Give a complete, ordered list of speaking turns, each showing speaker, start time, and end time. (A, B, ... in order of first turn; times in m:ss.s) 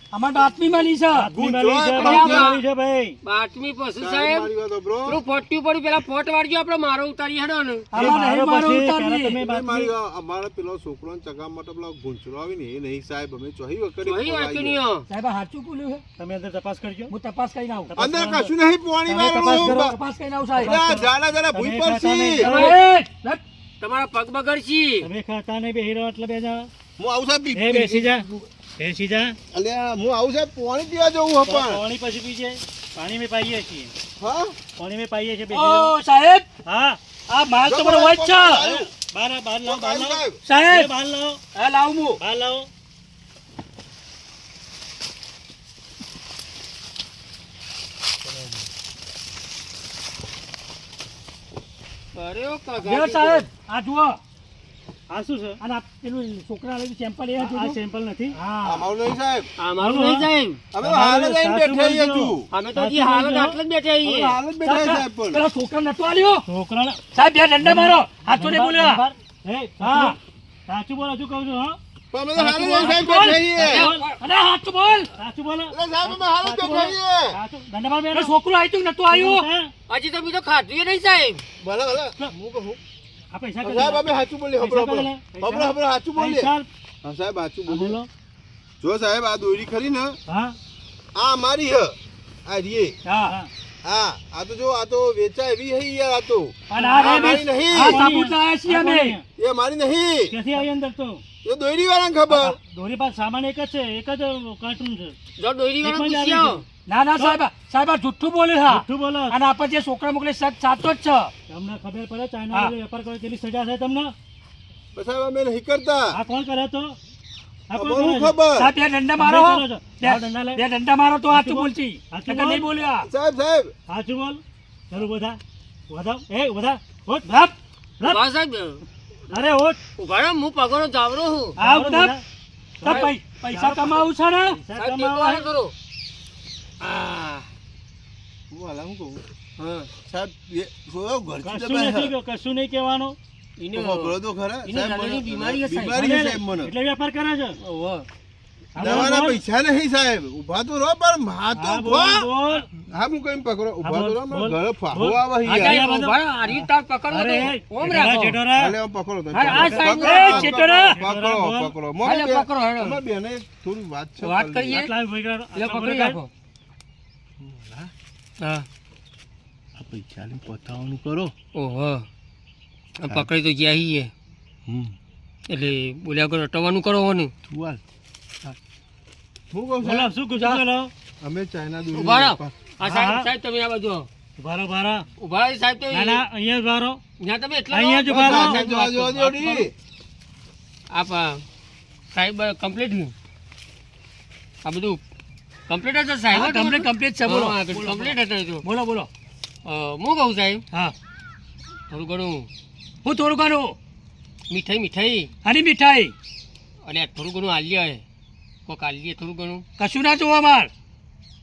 0:00.1-0:01.3 A
0:01.1-0:03.2 B
0:01.3-0:02.5 C
0:01.9-0:02.6 D
0:03.2-0:04.5 D
0:04.0-0:05.2 C
0:05.0-0:08.0 D
0:07.9-0:09.9 B
0:07.9-0:09.4 A
0:09.4-0:14.8 C
0:14.0-0:15.1 D
0:15.1-0:16.0 A
0:16.2-0:17.1 B
0:17.1-0:17.9 A
0:17.9-0:18.5 B
0:18.0-0:20.0 C
0:19.1-0:20.9 A
0:19.3-0:19.8 B
0:20.5-0:22.8 B
0:20.6-0:22.4 C
0:22.4-0:22.8 D
0:22.4-0:23.4 A
0:23.8-0:25.1 D
0:25.0-0:26.7 B
0:27.0-0:28.5 C
0:27.5-0:28.3 B
0:28.8-0:29.4 B
0:29.5-0:31.8 C
0:31.4-0:33.9 B
0:34.2-0:34.6 C
0:34.8-0:36.0 B
0:35.5-0:36.5 A
0:36.6-0:37.0 B
0:37.3-0:38.8 A
0:37.6-0:38.9 C
0:39.0-0:41.5 B
0:39.6-0:40.4 C
0:40.4-0:40.9 A
0:41.5-0:42.2 A
0:42.2-0:42.7 B
0:52.1-0:53.5 D
0:52.8-0:54.2 A
0:55.1-0:55.6 B
0:55.6-0:57.8 A
0:57.4-0:58.4 B
0:58.3-0:58.7 A
0:58.6-0:59.5 C
0:59.6-1:00.6 D
0:59.8-1:03.6 B
1:00.7-1:02.5 C
1:02.5-1:04.4 D
1:04.0-1:05.4 C
1:04.6-1:06.4 A
1:06.4-1:07.1 B
1:07.1-1:09.0 A
1:07.6-1:11.8 B
1:09.8-1:10.2 A
1:12.1-1:13.9 C
1:12.4-1:14.0 B
1:12.4-1:15.1 A
1:13.6-1:14.2 D
1:15.1-1:18.3 B
1:15.7-1:17.4 C
1:18.1-1:19.5 A
1:19.1-1:19.7 B
1:19.9-1:21.4 D
1:21.6-1:22.8 C
1:23.3-1:26.7 B
1:23.6-1:26.5 C
1:27.0-1:28.0 C
1:27.7-1:28.1 B
1:28.8-1:30.2 C
1:30.3-1:30.6 B
1:31.1-1:33.0 C
1:33.1-1:33.5 B
1:33.8-1:38.0 C
1:36.7-1:39.2 B
1:36.8-1:39.2 A
1:39.4-1:40.3 C
1:40.3-1:41.2 B
1:41.4-1:42.6 C
1:42.3-1:45.1 B
1:45.4-1:46.6 D
1:45.8-1:46.6 B
1:46.9-1:51.3 A
1:47.2-1:47.4 B
1:48.7-1:49.4 B
1:51.5-1:54.1 B
1:54.9-1:56.2 C
1:56.1-1:57.0 B
1:57.7-1:58.4 B
1:57.7-1:58.7 C
1:58.6-2:03.1 A
1:59.1-2:00.6 B
2:01.3-2:02.7 B
2:03.0-2:03.7 C
2:03.9-2:04.4 B
2:04.9-2:05.4 B
2:05.9-2:08.2 B
2:08.0-2:08.8 D
2:09.3-2:09.8 B
2:10.0-2:11.6 D
2:11.6-2:12.2 B
2:11.6-2:12.1 A
2:12.8-2:15.4 B
2:12.8-2:14.6 A
2:12.8-2:13.1 D
2:14.8-2:15.7 D
2:16.8-2:17.5 D
2:18.5-2:19.2 C
2:19.6-2:19.9 D
2:20.0-2:22.1 C
2:21.4-2:23.2 B
2:23.6-2:26.0 D
2:23.7-2:26.7 C
2:25.9-2:27.6 B
2:27.6-2:28.0 D
2:28.7-2:29.4 B
2:28.8-2:32.3 C
2:31.5-2:32.7 B
2:32.9-2:35.8 C
2:33.8-2:38.8 B
2:35.5-2:38.4 D
2:38.5-2:44.9 C
2:39.4-2:40.7 D
2:39.4-2:41.7 B
2:40.1-2:40.9 A
2:42.0-2:43.0 D
2:44.2-2:44.9 D
2:44.7-2:46.2 B
2:45.5-2:46.3 D
2:47.4-2:47.9 C
2:48.4-2:48.6 D
2:49.8-2:51.3 C
2:51.5-2:52.0 D
2:53.0-2:54.1 D
2:54.6-2:54.9 C
2:55.5-2:57.3 D
2:57.5-2:57.8 C
2:59.5-3:00.1 C
2:59.8-3:00.9 B
3:00.4-3:00.6 D
3:01.2-3:02.5 C
3:01.9-3:04.1 D
3:02.8-3:03.3 B
3:04.4-3:05.0 B
3:05.2-3:06.2 D
3:05.9-3:07.0 B
3:07.2-3:08.6 D
3:07.7-3:09.6 B
3:08.1-3:09.7 C
3:10.9-3:11.4 D
3:12.1-3:13.1 D
3:14.6-3:15.0 D
3:15.7-3:18.6 D
3:16.3-3:19.1 A
3:19.6-3:20.6 D
3:21.9-3:22.5 D
3:23.0-3:23.8 A
3:24.5-3:25.3 D
3:25.4-3:26.1 A
3:26.8-3:28.0 D
3:28.7-3:29.6 D
3:29.8-3:30.7 A